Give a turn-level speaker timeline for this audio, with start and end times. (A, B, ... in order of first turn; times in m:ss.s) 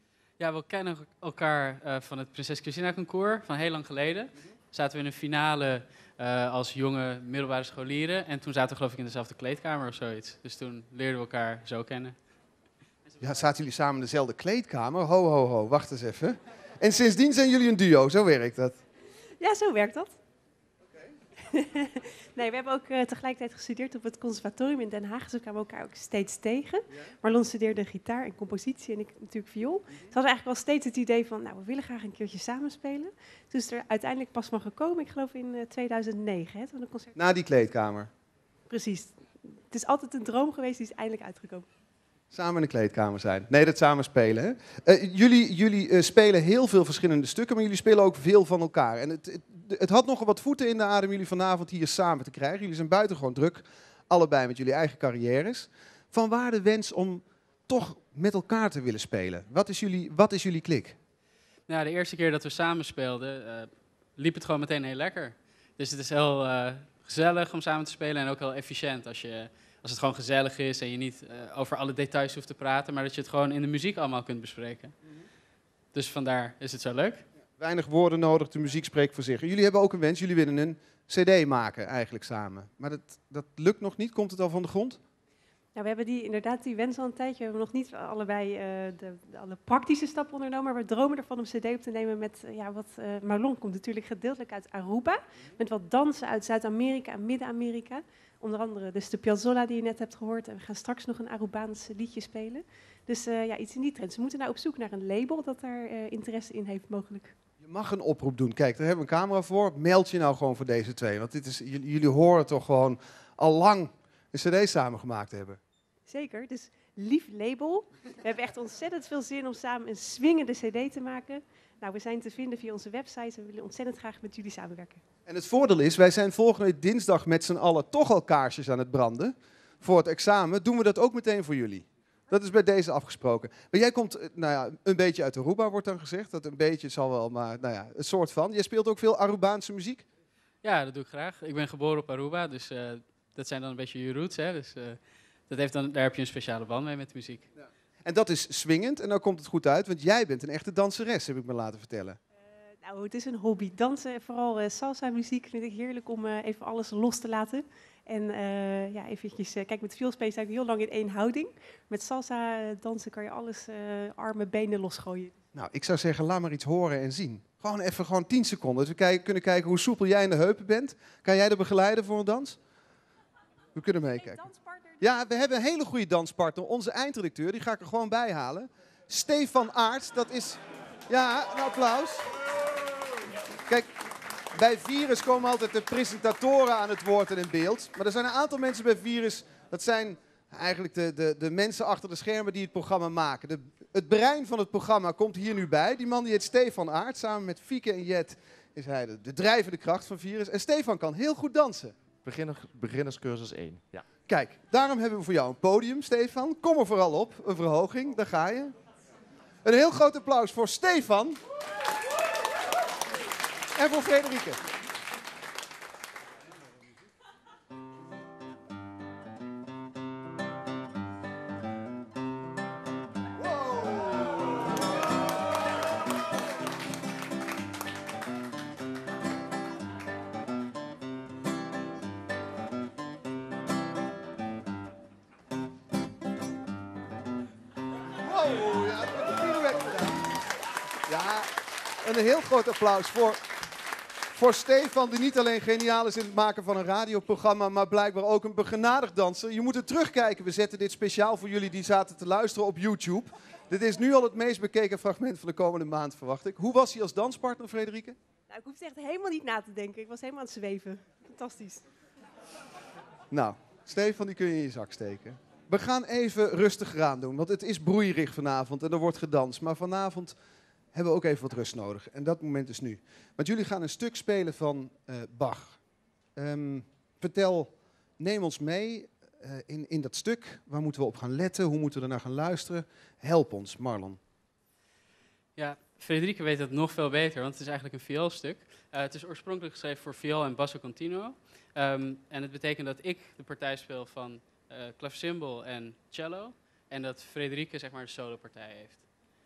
0:00.4-0:12.1 A
0:13.2-0:18.8 B
0:19.4-0:20.1 C
0:21.5-0:37.1 C
0:37.2-0:38.1 B
0:38.7-0:41.7 C
0:42.3-1:01.0 B
1:01.7-1:14.9 A
1:15.9-1:17.2 A
1:17.6-1:25.0 B
1:25.7-1:47.3 C
1:47.6-1:55.6 B
1:56.1-2:05.0 C
2:05.2-2:20.0 B
2:20.6-2:27.5 A
2:28.0-2:32.2 B
2:32.8-2:45.3 C
2:45.5-2:52.6 B
2:53.7-2:54.4 B
2:54.3-2:54.7 C
2:55.0-3:02.3 B
3:04.5-3:22.0 B
3:22.1-3:24.1 D
3:24.2-3:28.8 B
3:29.6-3:31.4 B
3:33.7-3:34.6 B
3:58.2-4:00.4 B
4:01.0-4:01.5 B
4:02.0-4:03.4 B
4:04.3-4:18.2 B
4:18.5-4:21.8 C
4:23.3-4:30.4 B
4:30.9-4:35.8 B
4:36.4-4:44.2 B
4:45.6-4:59.0 A